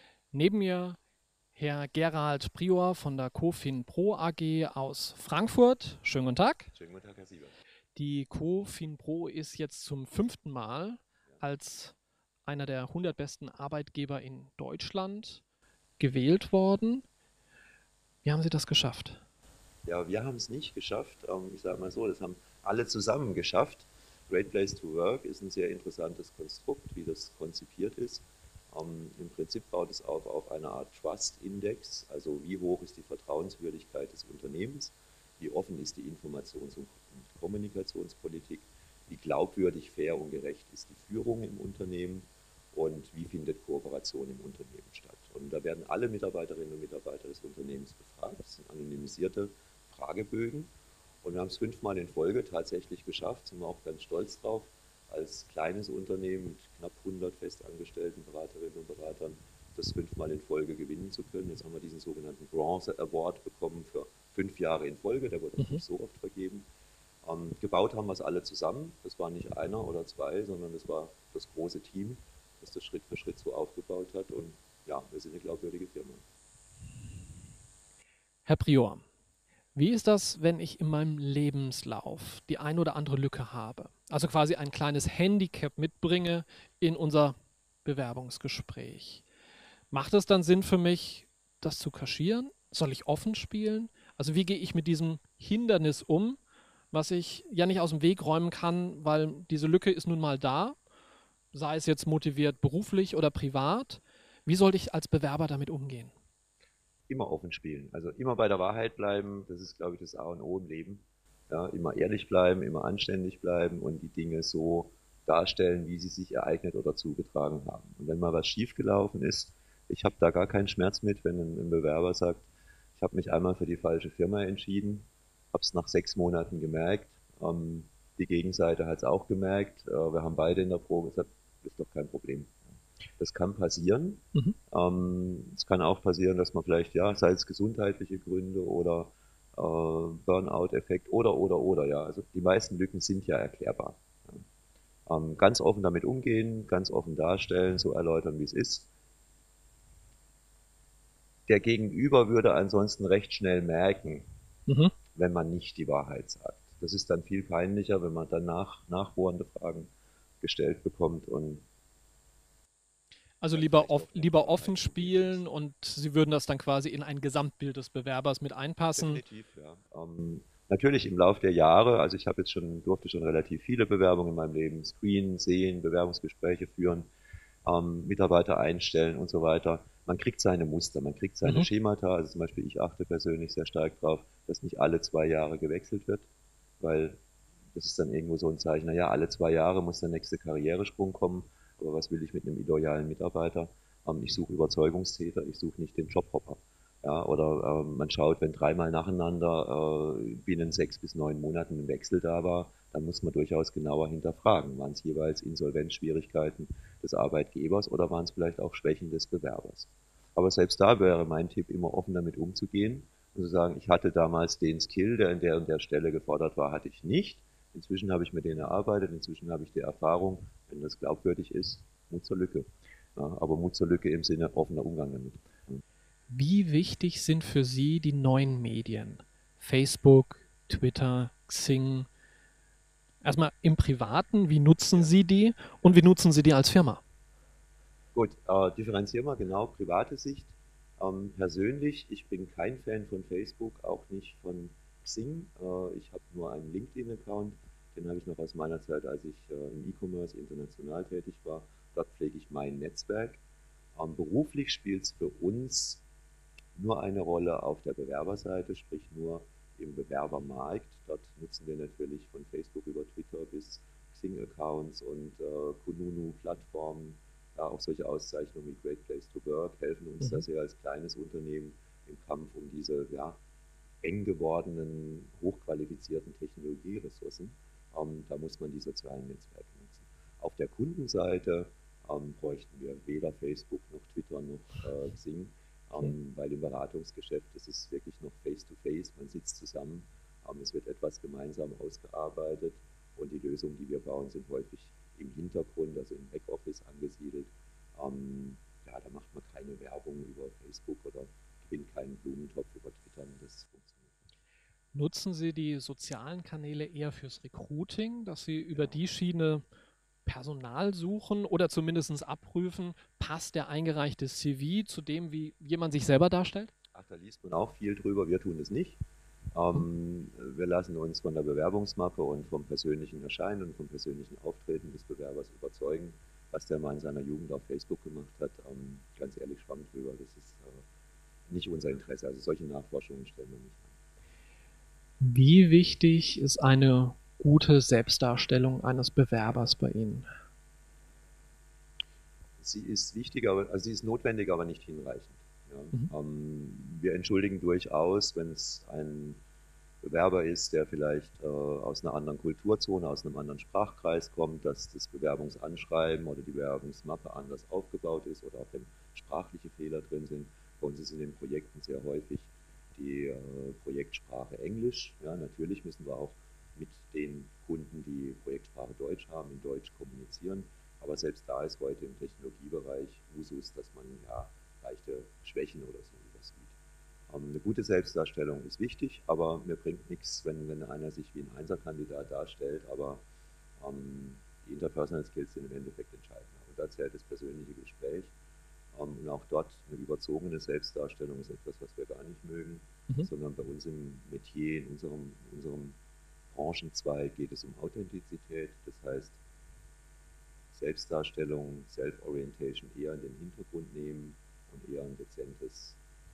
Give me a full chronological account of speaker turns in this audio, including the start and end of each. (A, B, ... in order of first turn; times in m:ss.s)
0:00.3-0:01.0 A
0:01.5-0:06.7 A
0:06.7-0:07.6 B
0:07.9-0:15.4 A
0:16.0-0:17.0 A
0:18.2-0:19.2 A
0:19.8-1:06.6 B
1:05.6-1:05.8 A
1:07.2-1:16.2 B
1:18.4-1:19.0 A
1:19.7-1:29.2 A
1:29.9-1:36.4 A
1:36.9-1:40.8 A
1:41.5-1:46.1 A
1:47.1-2:12.6 B
2:13.2-2:24.4 B
2:25.0-2:28.9 B
2:31.5-2:34.3 B
2:34.7-2:34.9 A
2:35.1-2:41.6 B
2:43.4-2:49.2 A
2:43.5-2:45.5 B
2:48.9-2:57.1 B
2:57.6-3:06.3 B
3:06.8-3:07.2 B
3:07.7-3:45.8 B
3:46.3-3:52.1 A
3:53.2-3:57.0 A
3:54.9-3:55.2 B
3:58.1-4:13.4 B
4:13.9-4:16.0 B
4:16.8-4:33.4 B
4:34.0-5:04.1 B
5:04.9-5:09.6 A
5:08.7-5:09.0 B
5:10.2-5:16.7 A
5:16.9-5:19.0 B
5:19.5-5:30.8 B
5:31.5-5:34.0 B
5:35.2-5:40.3 A
5:42.6-5:49.4 B
5:50.0-6:16.8 B
6:17.3-6:23.2 B
6:23.8-6:28.3 B
6:28.9-6:36.0 B
6:36.5-6:39.4 B
6:40.7-6:46.0 B